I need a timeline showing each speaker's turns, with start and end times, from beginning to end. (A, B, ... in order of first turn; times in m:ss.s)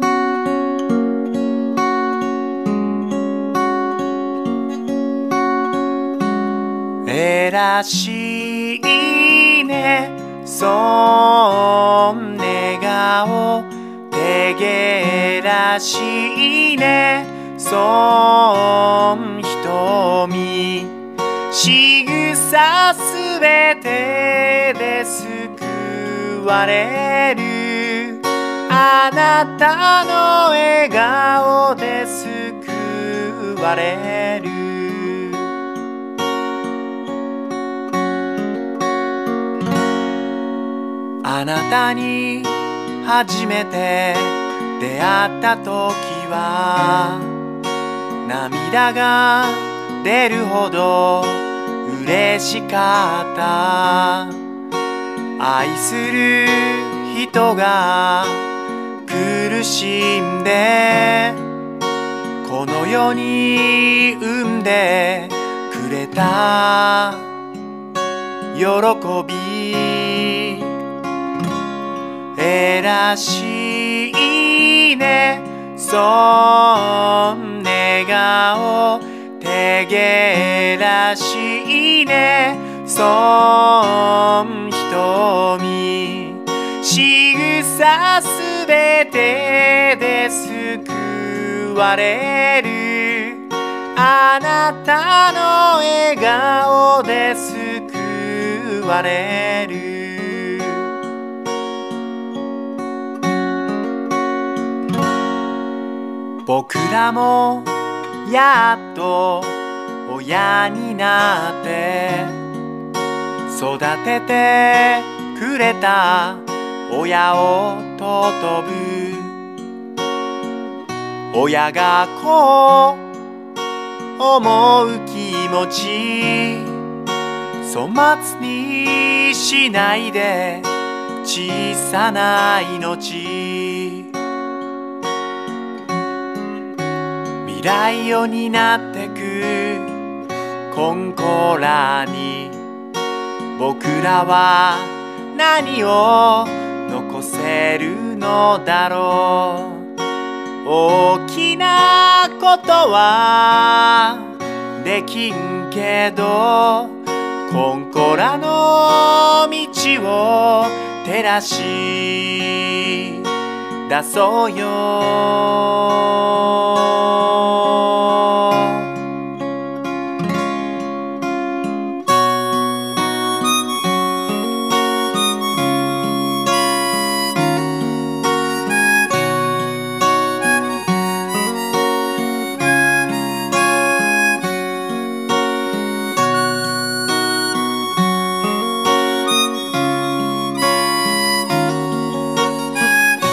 0:07.0-0:21.0 A
0:21.5-0:35.5 A
0:41.2-0:47.4 A
0:48.2-0:54.4 A
0:55.4-0:58.5 A
0:59.0-1:01.4 A
1:02.4-1:07.3 A
1:08.5-1:10.7 A
1:12.4-1:40.9 A
1:46.4-1:52.4 A
1:53.5-1:59.5 A
2:01.3-2:03.1 A
2:04.2-2:06.8 A
2:07.6-2:14.1 A
2:17.4-2:20.0 A
2:20.7-2:22.6 A
2:23.5-2:29.9 A
2:30.6-2:43.2 A
2:43.9-2:48.9 A